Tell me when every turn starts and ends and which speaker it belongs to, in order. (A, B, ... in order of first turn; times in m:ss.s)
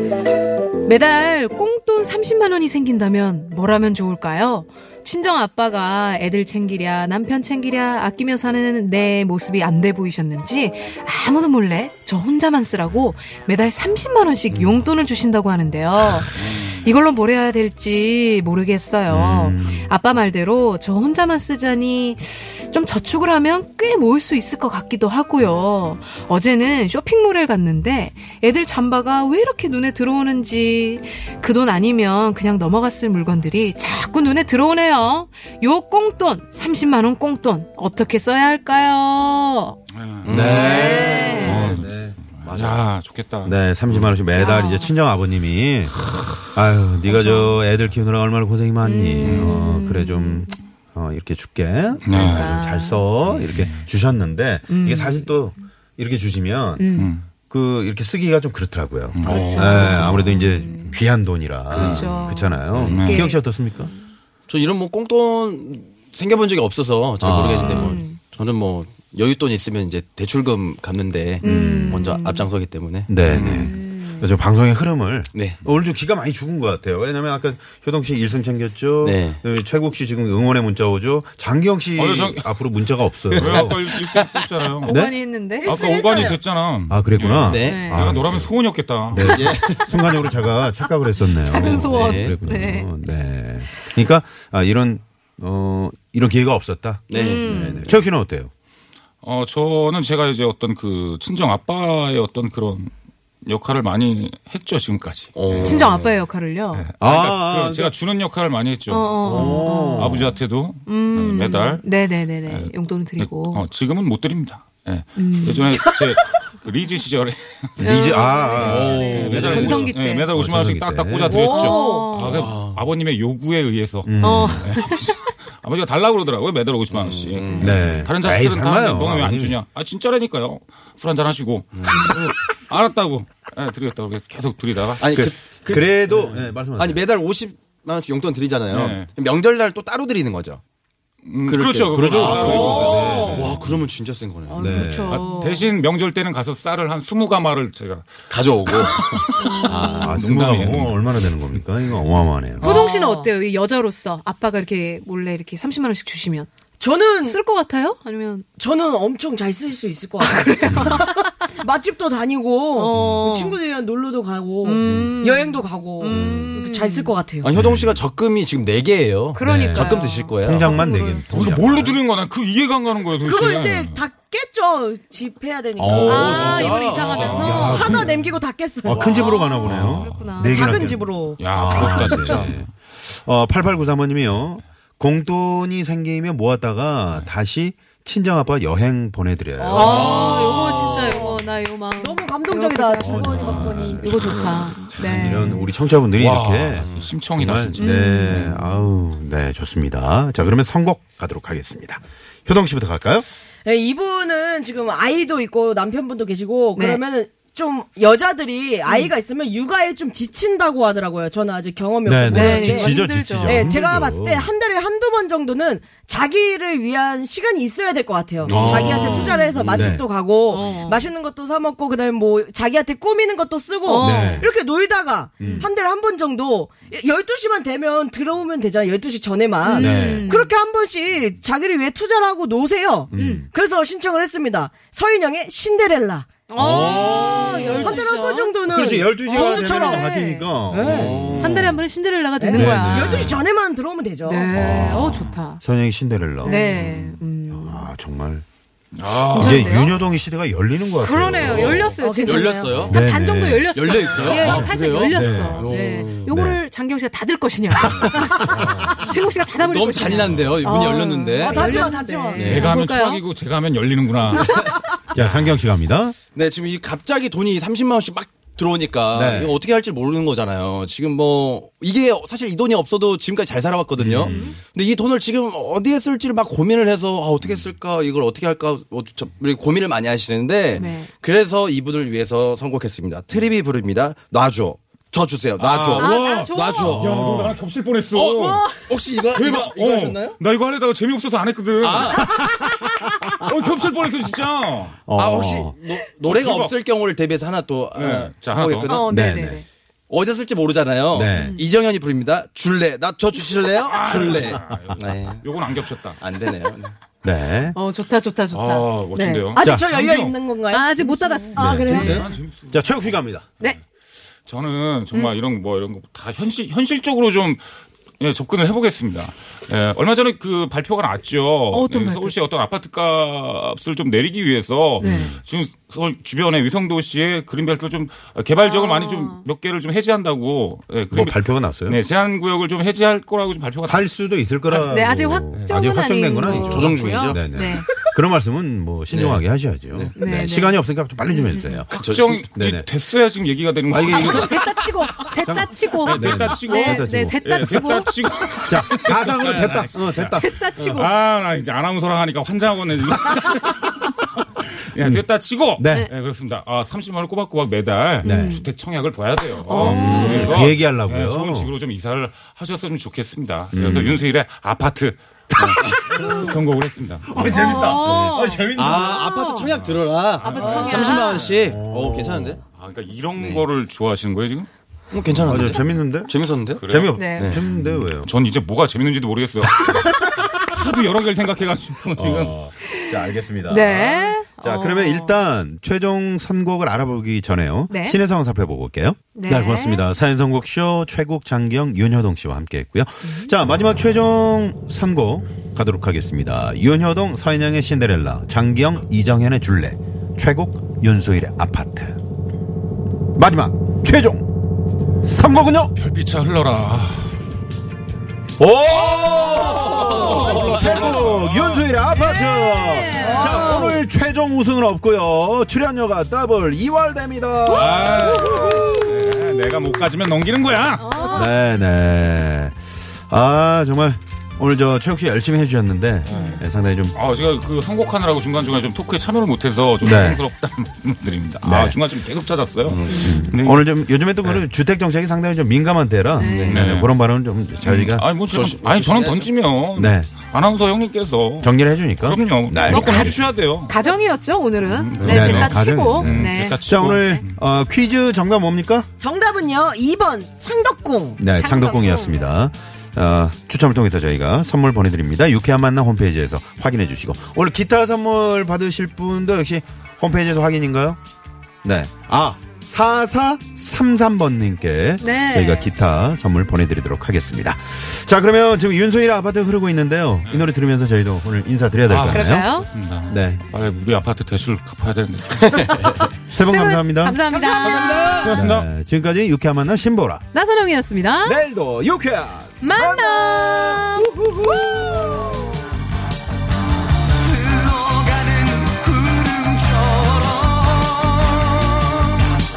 0:00.8-0:39.8 A
0:16.4-0:16.8 B
0:19.1-0:19.9 C
0:39.9-0:43.6 B
0:40.2-0:41.8 D
0:40.3-0:42.2 C
0:40.3-0:41.7 A
0:42.4-0:42.8 D
0:43.4-0:56.9 C
0:44.3-0:45.0 A
0:47.0-0:47.6 A
0:48.8-0:50.6 A
0:49.2-0:49.6 B
0:52.0-0:52.5 B
0:52.1-0:53.1 A
0:53.2-0:53.9 B
0:54.7-0:55.3 A
0:56.7-0:57.1 A
0:57.0-0:57.2 B
0:57.5-1:03.9 C
0:59.1-0:59.5 B
0:59.2-1:00.2 D
0:59.2-1:01.0 A
1:01.7-1:04.0 A
1:01.7-1:02.1 B
1:02.7-1:03.1 D
1:02.9-1:03.3 B
1:04.5-1:13.7 D
1:07.2-1:08.0 C
1:07.6-1:08.2 A
1:11.4-1:12.1 C
1:11.4-1:12.5 A
1:13.1-1:23.9 C
1:13.3-1:14.3 A
1:15.3-1:15.6 D
1:19.0-1:19.4 D
1:22.0-1:22.6 B
1:23.3-1:29.6 B
1:23.4-1:24.4 D
1:24.8-1:26.4 A
1:24.9-1:25.1 C
1:26.9-1:38.5 C
1:27.4-1:27.9 D
1:27.6-1:28.1 A
1:29.2-1:30.0 D
1:31.2-1:32.9 A
1:31.6-1:32.4 D
1:37.1-1:37.8 D
1:37.1-1:38.0 A
1:39.2-1:42.9 B
1:43.4-1:45.9 B
1:45.3-1:46.2 D
1:45.6-1:46.9 A
1:46.7-1:51.8 B
1:47.0-1:47.9 C
1:48.9-1:50.2 A
1:49.2-1:50.4 C
1:50.9-1:53.6 A
1:52.4-2:15.3 B
1:55.2-1:56.0 A
1:57.8-2:01.4 C
1:57.8-2:00.3 A
1:58.5-1:59.8 D
2:01.3-2:02.2 E
2:01.4-2:02.4 A
2:02.2-2:02.8 D
2:04.0-2:04.8 C
2:04.2-2:05.2 A
2:06.9-2:08.1 D
2:07.6-2:09.6 C
2:11.8-2:12.1 D
2:15.0-2:20.6 D
2:15.1-2:17.0 C
2:18.7-2:19.1 B
2:21.2-2:23.6 B
2:21.4-2:24.9 D
2:22.1-2:23.8 C
2:22.4-2:23.5 E
2:24.5-2:25.7 A
2:24.5-2:25.2 C
2:25.1-2:31.4 B
2:28.3-2:30.2 D
2:29.4-2:30.1 A
2:30.0-2:32.8 C
2:32.6-2:33.3 E
2:32.6-2:36.5 A
2:36.8-2:37.4 E
2:37.2-2:38.5 A
2:38.6-2:47.5 E
2:40.2-2:41.4 A
2:40.7-2:41.0 C
2:42.8-2:43.6 A
2:43.0-2:43.3 D
2:44.6-2:47.1 A
2:44.8-2:45.1 D
2:46.1-2:46.6 D
2:47.4-2:50.8 D
2:47.6-2:48.0 C
2:49.3-2:51.2 A
2:49.4-2:52.0 C
2:51.3-2:54.0 B
2:53.2-2:56.8 E
2:55.8-2:58.0 B
2:56.0-2:58.0 A
2:56.0-2:58.0 D
2:57.3-2:58.2 C
2:57.4-2:59.5 E
2:58.8-3:10.6 C
2:58.9-2:59.3 D
2:59.0-3:00.8 A
2:59.6-3:00.3 B
3:00.4-3:02.5 E
3:01.4-3:02.7 B
3:09.6-3:14.6 E
3:09.7-3:15.6 A
3:09.8-3:10.8 D
3:13.0-3:23.2 C
3:16.1-3:17.9 B
3:16.8-3:17.2 D
3:17.8-3:19.0 A
3:23.6-3:32.9 E
3:26.8-3:27.0 A
3:32.0-3:34.5 C
3:32.3-3:33.8 A
3:33.4-3:56.3 E
3:38.4-3:40.0 D
3:38.4-3:40.0 C
3:38.9-3:39.6 A
3:40.5-3:41.1 A
3:43.8-3:44.5 A
3:44.0-3:44.5 C
3:45.4-3:45.7 C
3:45.4-3:45.7 A
3:49.6-3:50.5 A
3:49.7-3:50.3 C
3:53.1-3:53.5 C
3:53.1-3:53.4 A
3:56.5-3:58.5 A
3:56.6-3:58.0 C
3:57.0-4:01.2 E
3:58.7-4:01.8 C
3:59.3-4:00.5 A
4:00.9-4:01.8 D
4:01.4-4:03.4 A
4:02.4-4:04.5 E
4:02.5-4:03.4 C
4:04.2-4:05.6 A
4:04.5-4:06.9 C
4:04.6-4:05.3 B
4:06.4-4:06.7 E
4:06.4-4:07.9 A
4:06.8-4:07.1 D
4:07.5-4:08.4 C
4:08.9-4:09.9 B
4:09.3-4:11.9 C
4:09.3-4:10.0 A
4:11.0-4:23.2 A
4:11.3-4:13.0 D
4:12.0-4:12.9 E
4:12.8-4:15.7 C
4:13.7-4:16.4 D
4:16.3-4:16.6 C
4:17.9-4:18.9 D
4:18.0-4:18.9 C
4:19.6-4:22.8 D
4:20.1-4:20.5 C
4:21.4-4:22.6 E
4:22.4-4:24.6 B
4:24.3-4:24.8 A
4:25.1-4:26.2 C
4:25.1-4:25.6 B
4:26.4-4:47.5 D
4:29.1-4:29.6 C
4:34.0-4:34.6 C
4:34.2-4:34.6 A
4:40.8-4:41.1 A
4:45.6-4:48.7 B
4:46.0-4:47.1 A
4:47.0-4:47.6 C
4:48.1-4:50.4 D
4:48.5-4:48.8 A
4:49.2-4:52.6 B
4:51.8-4:52.4 D
4:53.2-4:55.0 B
4:55.1-4:55.8 C
4:55.2-4:59.1 D
4:56.2-4:56.8 B
4:57.9-4:59.0 B
4:58.9-4:59.6 A
4:59.1-4:59.6 C
5:00.1-5:05.4 D
5:01.1-5:01.6 C
5:01.3-5:01.6 A
5:03.8-5:06.2 B
5:04.7-5:05.0 C
5:06.2-5:06.9 D
5:07.2-5:07.8 C
5:07.7-5:09.5 A
5:08.5-5:10.4 B
5:09.5-5:12.3 E
5:09.6-5:09.9 C
5:10.7-5:12.2 A
5:11.6-5:13.5 C
5:11.9-5:13.7 B
5:14.4-5:17.6 B
5:18.2-5:34.1 B
5:21.7-5:22.4 A
5:25.0-5:25.3 A
5:25.0-5:25.4 C
5:28.6-5:29.4 A
5:31.1-5:32.0 C
5:33.8-5:41.9 C
5:34.7-5:37.9 A
5:36.4-5:38.1 D
5:39.1-5:40.1 D
5:40.2-5:41.8 A
5:41.9-5:45.3 B
5:41.9-5:42.5 D
5:42.6-5:42.9 C
5:43.9-5:44.7 C
5:44.1-5:48.1 A
5:45.4-5:47.4 C
5:46.0-6:07.8 B
5:48.7-5:50.5 C
5:50.4-5:51.1 A
5:55.0-5:55.2 C
5:55.8-5:56.1 C
5:58.2-5:58.6 C
5:58.2-5:58.6 A
5:59.6-6:00.6 A
5:59.7-6:01.7 C
6:03.7-6:04.2 C
6:05.6-6:06.6 C
6:07.3-6:09.3 C
6:07.4-6:09.7 A
6:07.7-6:12.6 D
6:09.7-6:11.4 B
6:10.4-6:11.5 A
6:10.9-6:12.6 C
6:12.7-6:14.7 B
6:13.4-6:13.6 D
6:15.1-6:17.7 D
6:15.3-6:15.7 B
6:15.4-6:18.3 C
6:16.8-6:22.6 B
6:17.1-6:17.6 A
6:19.6-6:20.5 C
6:22.1-6:42.2 C
6:22.8-6:25.4 A
6:27.9-6:28.2 A
6:29.4-6:30.1 A
6:33.2-6:33.5 A
6:43.4-6:44.5 C
6:45.2-6:45.9 C
6:45.9-6:47.4 B
6:48.6-6:58.7 C
6:49.4-6:50.8 D
6:49.4-6:51.9 B
6:52.1-6:54.0 A
6:53.2-6:54.0 E
6:57.7-6:59.1 A
6:57.7-7:01.2 B
7:01.0-7:01.5 A
7:01.2-7:07.2 C
7:06.2-7:14.0 B
7:06.3-7:06.6 A
7:10.0-7:10.4 C
7:11.6-7:12.0 C
7:12.9-7:13.4 D
7:13.1-7:13.5 A
7:13.2-7:18.3 C
7:16.4-7:16.9 A
7:16.4-7:16.9 D
7:16.7-7:17.2 B
7:17.8-7:24.0 B
7:18.4-7:19.5 D
7:20.0-7:20.3 C
7:21.6-7:23.5 C
7:22.8-7:27.3 A
7:24.8-7:27.6 B
7:25.2-7:25.5 D
7:25.2-7:29.1 C
7:29.2-7:31.4 E
7:31.4-7:41.2 C
7:31.5-7:32.5 A
7:41.8-7:53.6 C
7:45.2-7:45.9 A
7:50.4-7:50.7 B
7:52.1-7:55.9 B
7:52.3-7:52.9 A
7:55.6-7:56.3 D
7:56.1-7:58.5 A
7:56.5-7:57.4 C
7:57.5-7:58.6 D
7:58.4-7:58.9 B
7:58.4-8:00.4 C
8:00.5-8:01.6 A
8:01.4-8:05.7 C
8:02.8-8:05.5 A
8:07.4-8:12.3 D